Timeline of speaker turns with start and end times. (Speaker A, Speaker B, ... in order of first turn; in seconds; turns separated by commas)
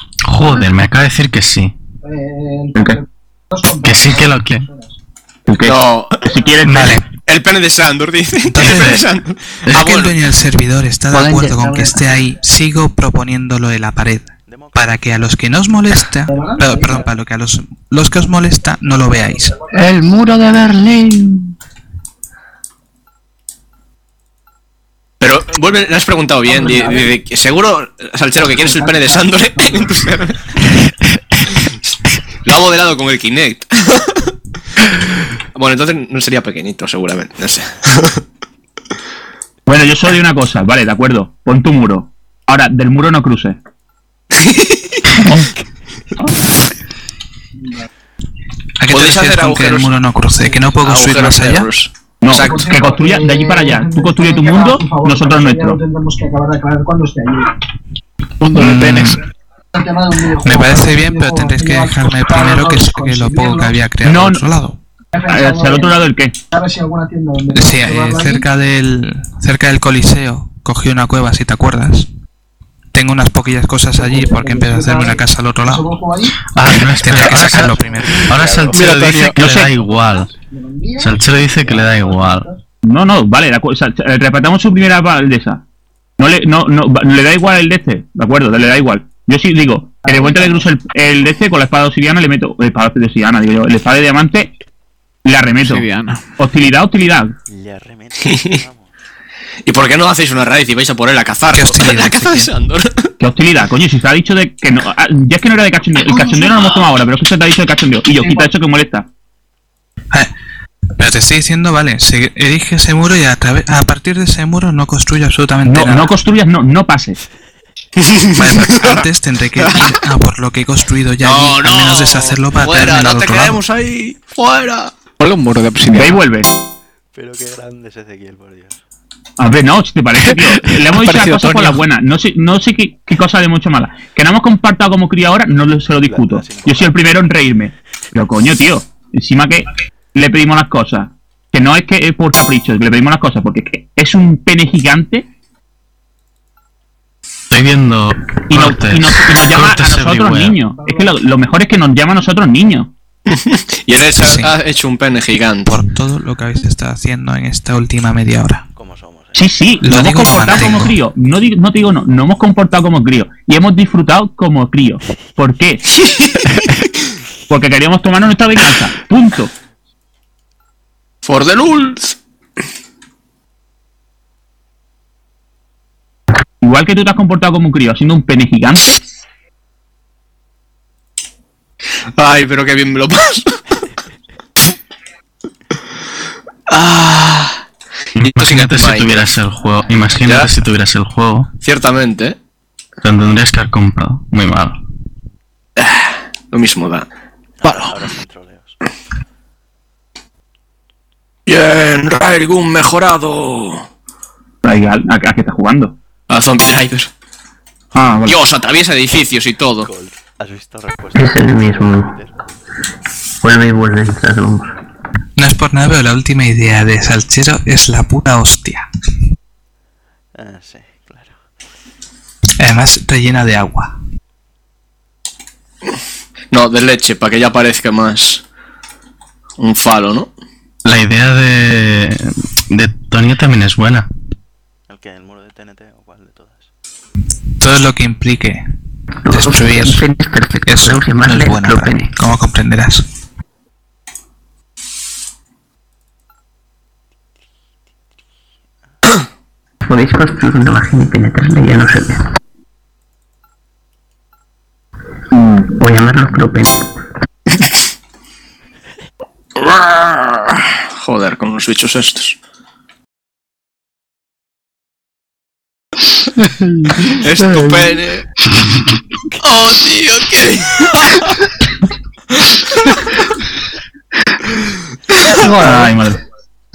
Speaker A: 0.2-1.7, Speaker B: 2.0-4.9, Speaker A: 3.8-4.7, Speaker C: 5.5-7.0, Speaker D: 5.6-6.2, Speaker E: 6.6-7.0, Speaker D: 7.2-10.1, Speaker E: 8.5-9.0, Speaker A: 8.6-9.0, Speaker A: 9.7-9.9, Speaker E: 9.7-19.6, Speaker F: 11.1-11.9, Speaker G: 14.5-15.1, Speaker B: 16.3-17.0, Speaker F: 19.7-21.5, Speaker D: 25.2-30.4, Speaker B: 26.4-27.2, Speaker B: 28.4-29.9, Speaker D: 32.4-34.2, Speaker D: 35.5-38.2, Speaker C: 39.7-43.6, Speaker D: 44.4-44.8, Speaker E: 48.8-51.7, Speaker D: 48.9-49.9, Speaker D: 50.8-52.6, Speaker C: 52.2-55.8, Speaker B: 52.3-57.5, Speaker H: 58.4-59.2, Speaker E: 58.5-59.2, Speaker B: 59.7-63.7, Speaker E: 60.4-64.8, Speaker C: 64.0-64.4, Speaker B: 65.1-66.0, Speaker C: 65.3-66.3, Speaker B: 66.5-68.4, Speaker E: 67.5-72.1, Speaker E: 72.9-75.9, Speaker B: 74.0-76.3, Speaker A: 76.5-77.7, Speaker E: 77.0-78.1, Speaker G: 77.7-78.8, Speaker A: 78.2-80.3, Speaker H: 78.7-79.4, Speaker C: 79.3-79.7, Speaker G: 79.7-80.3, Speaker B: 80.5-82.6, Speaker A: 81.0-82.5, Speaker C: 82.9-85.6, Speaker C: 86.2-94.5, Speaker B: 90.0-90.7, Speaker C: 95.2-95.8, Speaker H: 95.6-96.2, Speaker C: 96.4-97.3, Speaker G: 97.5-98.9, Speaker D: 99.6-103.1, Speaker E: 101.5-102.5, Speaker C: 103.2-109.0, Speaker E: 111.0-116.1, Speaker C: 115.7-117.2, Speaker D: 118.0-119.0, Speaker E: 118.3-123.6, Speaker D: 119.6-120.0, Speaker D: 121.2-125.0, Speaker H: 125.2-126.2, Speaker C: 125.9-126.5, Speaker G: 127.1-128.8, Speaker C: 129.4-145.2, Speaker H: 130.9-131.8, Speaker G: 136.0-137.2, Speaker A: 147.5-150.6, Speaker C: 148.5-152.9, Speaker B: 150.8-151.2, Speaker D: 153.3-155.8, Speaker E: 154.2-154.5, Speaker E: 155.6-158.6, Speaker G: 158.7-160.8, Speaker C: 159.3-165.8, Speaker E: 159.8-161.0, Speaker C: 167.5-169.5, Speaker D: 171.2-172.2, Speaker C: 176.6-179.0, Speaker D: 182.1-183.6, Speaker D: 186.7-187.6, Speaker A: 188.2-191.5, Speaker D: 188.3-189.3, Speaker G: 189.6-189.9, Speaker D: 190.2-190.6, Speaker D: 191.6-192.3, Speaker A: 193.0-194.8, Speaker D: 195.8-197.1, Speaker G: 197.6-198.8, Speaker D: 201.5-203.8, Speaker C: 204.6-205.9, Speaker D: 206.3-207.1, Speaker C: 207.9-208.4, Speaker D: 208.2-209.9, Speaker G: 209.8-212.4, Speaker I: 211.2-212.2, Speaker I: 213.4-214.7, Speaker E: 215.4-218.8, Speaker G: 220.3-221.4, Speaker E: 222.6-223.9, Speaker D: 226.5-228.4, Speaker D: 229.6-230.3, Speaker A: 230.8-234.1, Speaker G: 234.9-236.7, Speaker E: 237.6-238.7, Speaker I: 239.2-242.1, Speaker E: 239.3-240.1, Speaker E: 240.7-243.0, Speaker I: 249.8-252.2, Speaker I: 255.7-256.8, Speaker D: 259.6-262.4, Speaker F: 266.4-268.0, Speaker D: 267.1-268.2, Speaker D: 269.4-271.3, Speaker F: 275.3-276.0, Speaker C: 275.6-276.2